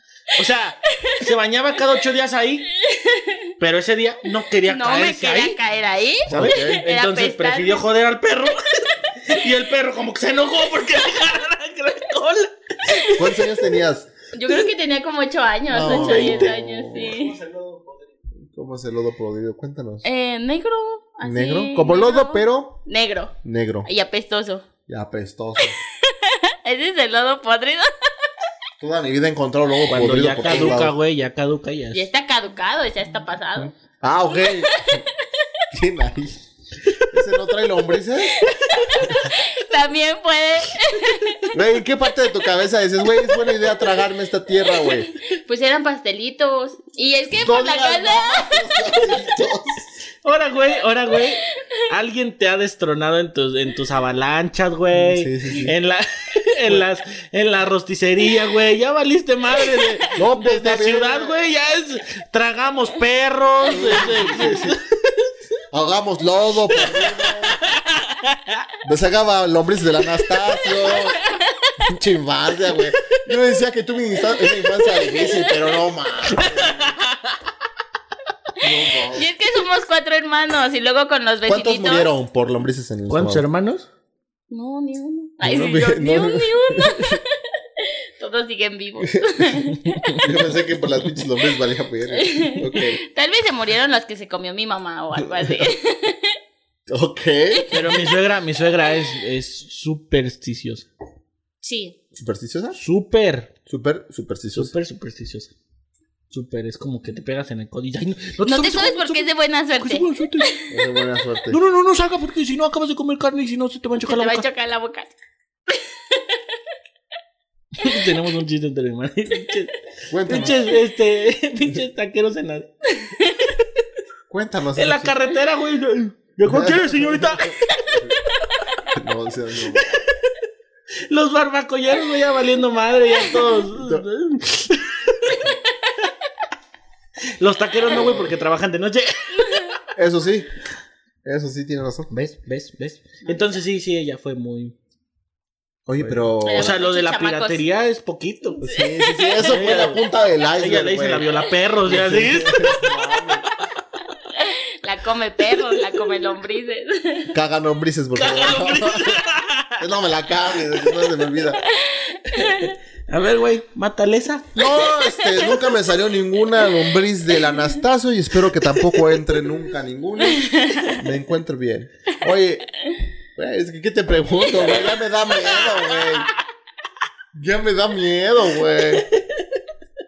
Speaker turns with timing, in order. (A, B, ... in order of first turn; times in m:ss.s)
0:00.4-0:02.7 A
0:02.9-0:03.4 B
0:03.6-0:05.6 A
0:04.7-0:07.8 B
0:06.3-0:13.4 A
0:06.3-0:06.8 C
0:13.1-0:14.1 C
0:14.3-0:17.4 B
0:15.7-0:17.1 C
0:15.8-0:18.1 A
0:18.5-0:20.1 C
0:20.0-0:23.3 B
0:21.2-0:22.8 C
0:23.4-0:23.9 C
0:23.8-0:24.7 B
0:24.9-0:25.8 C
0:25.6-0:27.9 B
0:28.8-0:31.0 C
0:29.9-0:32.1 A
0:31.9-0:33.7 B
0:33.6-0:35.0 C
0:34.3-0:35.1 B
0:35.7-0:36.4 C
0:37.0-0:38.5 C
0:38.4-0:41.5 B
0:41.5-0:45.1 C
0:44.8-0:49.3 B
0:47.3-0:50.0 C
0:50.2-1:05.3 A
0:54.9-0:55.8 C
1:00.2-1:01.4 C
1:03.6-1:04.8 C
1:05.7-1:07.6 C
1:06.7-1:08.6 A
1:08.8-1:11.2 C
1:10.6-1:11.7 B
1:11.8-1:17.0 C
1:14.8-1:15.6 B
1:16.3-1:17.2 A
1:18.6-1:19.3 C
1:19.1-1:22.1 B
1:21.5-1:23.4 C
1:23.1-1:23.9 A
1:24.5-1:30.0 B
1:25.4-1:27.2 C
1:29.0-1:29.6 C
1:29.9-1:30.2 A
1:30.2-1:33.0 C
1:32.1-1:36.4 B
1:35.2-1:35.7 C
1:36.9-1:37.8 C
1:37.7-1:40.9 A
1:41.6-1:42.0 B
1:42.1-1:42.8 C
1:42.8-1:43.5 A
1:43.7-1:44.7 C
1:44.6-1:45.5 A
1:46.3-1:50.7 A
1:48.4-1:50.6 B
1:50.7-1:51.6 C
1:51.5-1:54.5 A
1:54.0-1:55.1 B
1:55.7-1:56.4 B
1:57.8-2:03.1 A
2:00.1-2:00.6 C
2:03.0-2:03.5 B
2:04.3-2:05.2 C
2:04.8-2:07.6 A
2:06.4-2:08.1 C
2:08.9-2:09.9 C
2:09.7-2:10.3 A
2:11.1-2:15.5 A
2:13.8-2:14.0 C
2:17.4-2:19.8 A
2:17.9-2:18.3 C
2:19.4-2:19.7 B
2:19.9-2:20.5 C
2:21.2-2:22.1 C
2:22.1-2:24.8 A
2:25.9-2:26.8 C
2:26.0-2:28.6 A
2:26.4-2:27.6 B
2:28.6-2:29.7 B
2:28.6-2:31.3 C
2:29.4-2:30.0 A
2:30.6-2:32.9 A
2:31.8-2:33.5 C
2:34.3-2:37.4 B
2:37.3-2:39.2 C
2:38.2-2:39.8 A
2:39.8-2:41.6 C
2:41.6-2:42.8 B
2:42.3-2:44.5 A
2:44.6-2:52.7 C
2:44.8-2:45.6 B
2:48.7-2:49.2 A
2:50.2-2:51.0 B
2:53.4-2:56.3 C
2:57.3-2:59.1 C
2:58.8-2:59.6 A